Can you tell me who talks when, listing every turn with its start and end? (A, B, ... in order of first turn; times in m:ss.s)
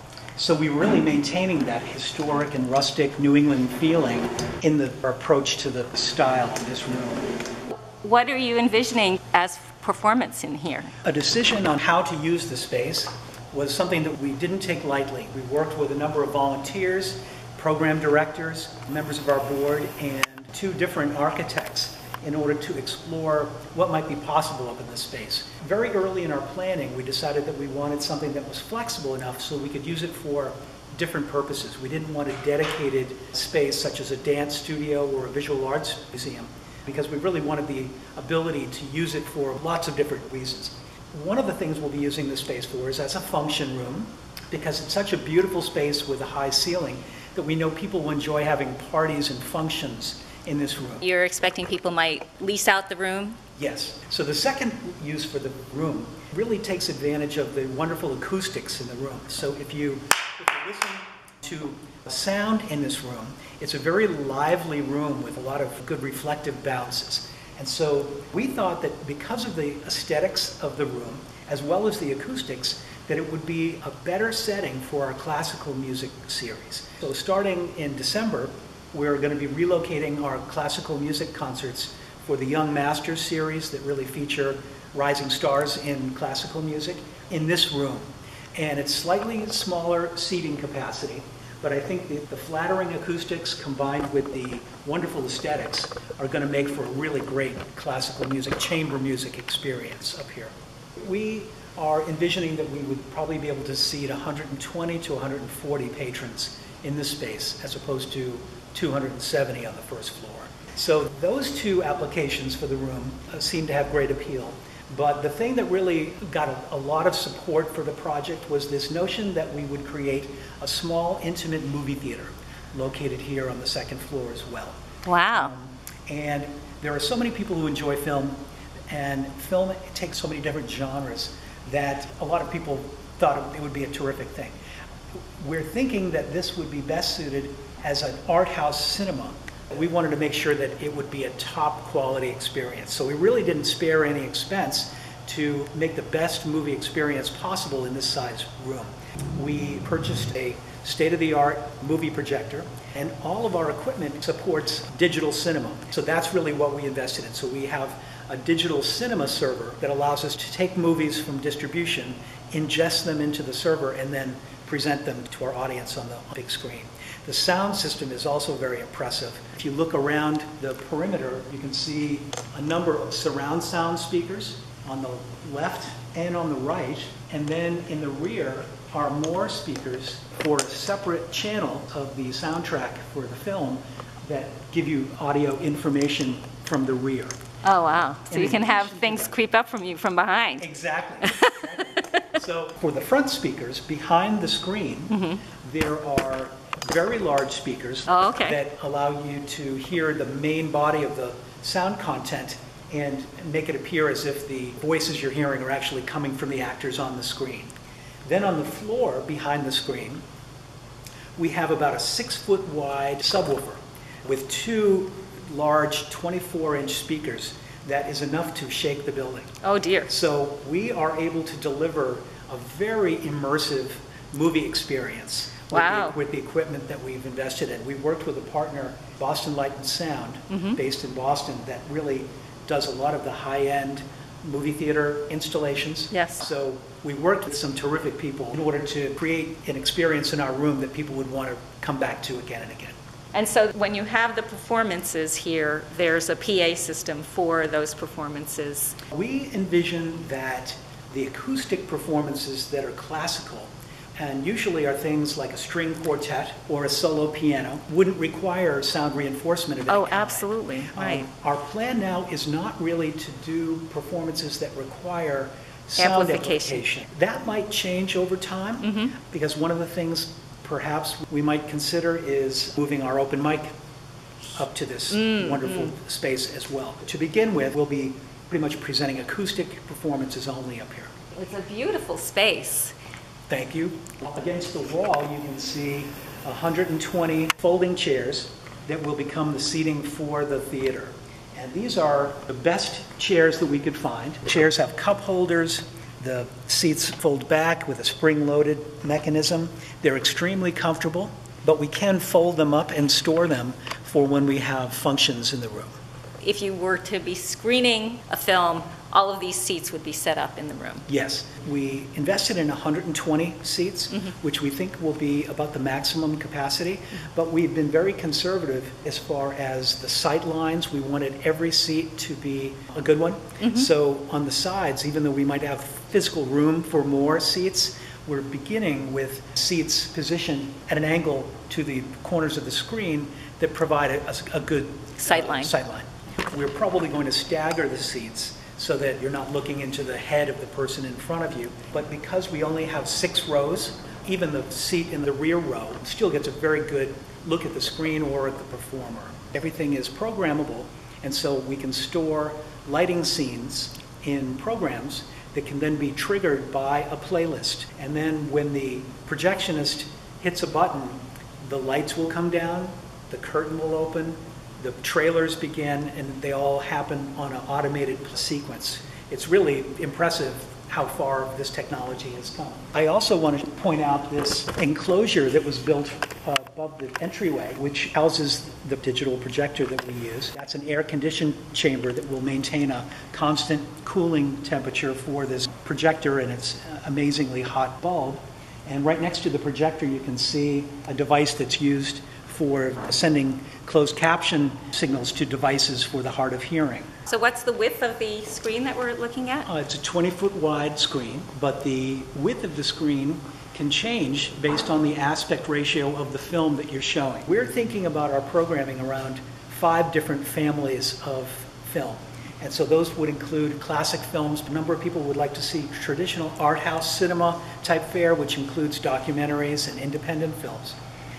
0:00.4-0:07.2 A
0:07.7-0:10.9 B
0:11.0-0:51.0 A
0:51.0-0:53.4 B
0:53.6-2:04.7 A
2:05.0-2:05.5 B
2:05.3-2:08.4 A
2:08.9-2:14.5 A
2:15.4-3:07.3 A
3:07.6-3:10.6 B
3:08.3-3:09.3 A
3:10.6-3:27.7 A
3:11.2-3:11.6 B
3:15.1-3:15.4 B
3:18.1-3:18.6 B
3:28.2-3:30.2 A
3:31.4-3:39.5 A
3:39.6-3:40.1 B
3:40.1-4:02.9 A
3:45.7-3:46.2 B
3:50.5-3:50.8 B
3:56.1-3:56.4 B
4:03.3-4:09.0 B
4:09.1-4:33.7 A
4:19.9-4:21.2 B
4:26.0-4:26.8 B
4:28.8-4:29.1 B
4:34.6-4:41.1 A
4:35.1-4:35.9 B
4:41.3-4:42.9 B
4:43.5-5:06.0 A
5:06.4-5:11.0 B
5:11.1-6:37.1 A
5:23.6-5:23.9 B
5:35.2-5:35.7 B
6:37.3-6:39.7 B
6:39.7-7:01.0 A